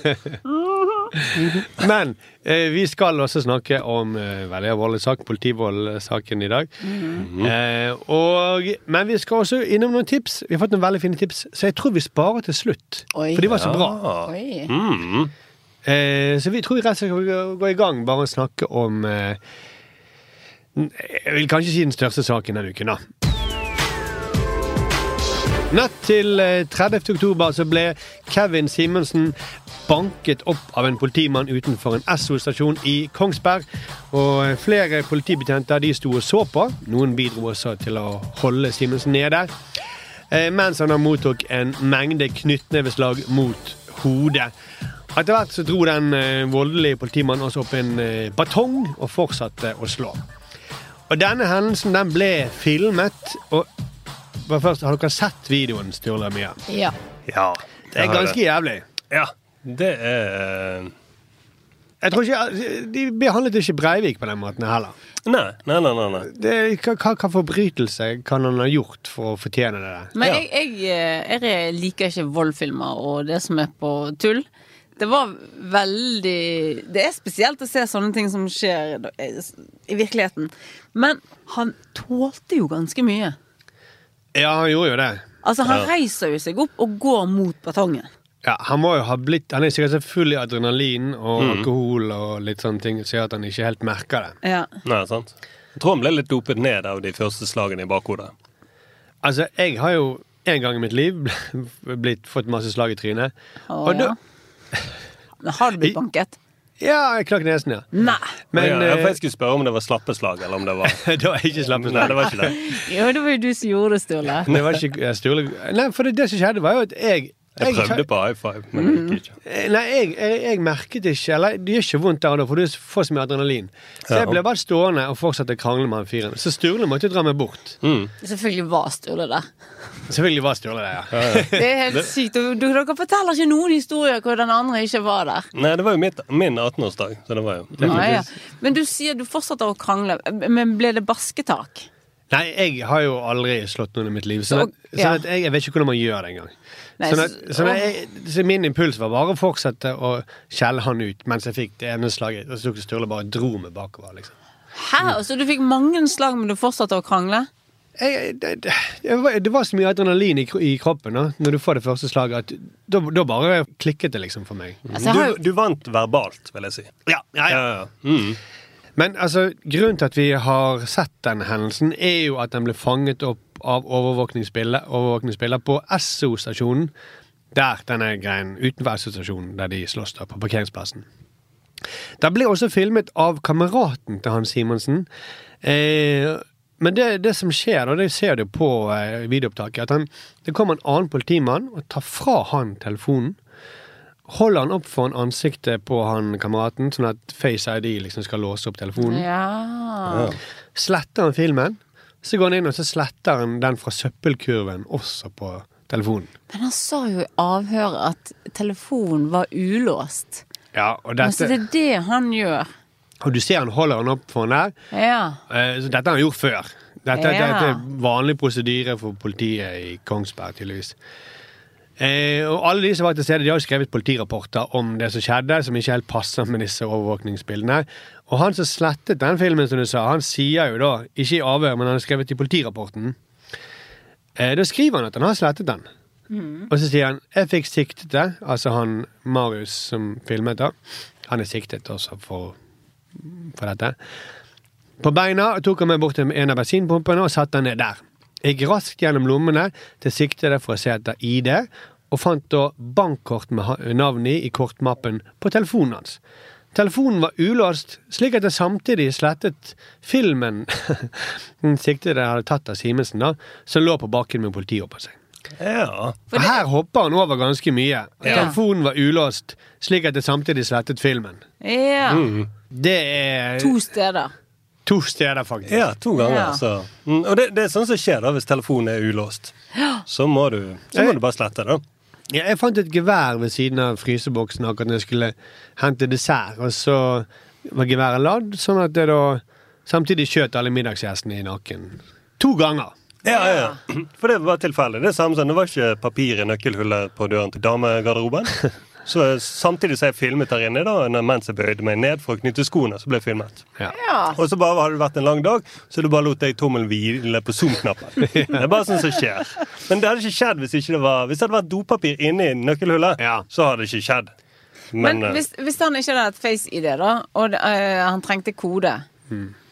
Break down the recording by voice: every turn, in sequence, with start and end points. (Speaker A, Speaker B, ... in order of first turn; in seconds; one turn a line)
Speaker A: 1.2-14.0
Speaker B: 1.4-1.7
Speaker C: 6.8-7.3
Speaker B: 7.2-7.5
Speaker C: 13.1-13.5
Speaker B: 13.5-15.3
Speaker C: 14.3-14.7
Speaker A: 15.8-19.4
Speaker A: 20.8-23.0
Speaker A: 25.7-39.5
Speaker A: 40.3-44.5
Speaker A: 45.1-50.2
Speaker A: 51.1-53.7
Speaker A: 54.4-56.6
Speaker C: 56.7-57.0
Speaker B: 57.3-58.4
Speaker A: 58.0-58.9
Speaker B: 59.1-60.9
Speaker A: 62.0-65.0
Speaker B: 65.3-66.3
Speaker A: 66.2-70.2
Speaker C: 70.2-74.5
Speaker C: 75.0-83.4
Speaker A: 84.3-85.2
Speaker C: 85.4-88.1
Speaker A: 88.4-94.4
Speaker B: 91.4-91.7
Speaker C: 94.4-94.7
Speaker B: 94.8-98.3
Speaker A: 99.2-103.3
Speaker C: 103.7-104.2
Speaker A: 103.8-104.1
Speaker C: 105.4-106.4
Speaker A: 106.8-107.9
Speaker C: 108.0-108.3
Speaker A: 108.5-109.2
Speaker B: 108.5-111.0
Speaker A: 110.8-112.7
Speaker B: 111.7-112.6
Speaker C: 112.3-114.5
Speaker B: 114.5-114.8
Speaker A: 114.5-118.0
Speaker B: 117.6-119.3
Speaker C: 118.8-119.2
Speaker A: 119.4-127.8
Speaker B: 124.1-124.4
Speaker B: 127.8-128.1
Speaker C: 128.2-129.5
Speaker A: 130.1-131.7
Speaker B: 131.1-131.5
Speaker C: 131.5-135.5
Speaker B: 135.6-138.2
Speaker A: 137.8-138.2
Speaker C: 137.8-141.9
Speaker A: 142.3-146.5
Speaker C: 144.5-145.2
Speaker C: 147.0-147.8
Speaker A: 147.1-154.3
Speaker C: 154.8-157.5
Speaker A: 158.0-165.3
Speaker B: 164.9-166.9
Speaker A: 167.1-167.6
Speaker B: 167.5-168.4
Speaker A: 169.0-176.9
Speaker A: 177.5-181.1
Speaker A: 182.2-185.1
Speaker A: 185.6-193.4
Speaker A: 194.3-199.2
Speaker C: 199.0-200.3
Speaker B: 200.1-200.4
Speaker A: 200.8-206.3
Speaker C: 206.5-210.4
Speaker A: 210.7-211.6
Speaker C: 211.2-212.7
Speaker A: 213.2-214.8
Speaker C: 214.9-215.4
Speaker A: 215.5-221.0
Speaker C: 217.2-217.8
Speaker A: 222.0-233.2
Speaker A: 234.4-235.9
Speaker C: 236.3-236.7
Speaker A: 236.7-242.6
Speaker A: 243.2-244.0
Speaker A: 245.0-256.2
Speaker A: 256.7-265.2
Speaker B: 265.6-266.2
Speaker C: 266.3-266.6
Speaker A: 266.3-271.4
Speaker B: 268.2-268.5
Speaker C: 268.3-268.6
Speaker C: 271.6-272.3
Speaker B: 272.1-272.5
Speaker A: 272.7-273.8
Speaker C: 273.6-274.3
Speaker A: 274.9-275.9
Speaker B: 275.7-279.6
Speaker C: 276.2-276.6
Speaker B: 280.1-281.8
Speaker A: 282.3-292.9
Speaker B: 293.2-303.6
Speaker C: 293.3-293.8
Speaker C: 303.9-304.4
Speaker B: 304.4-314.3
Speaker A: 313.2-313.4
Speaker B: 314.9-315.4
Speaker C: 315.0-319.1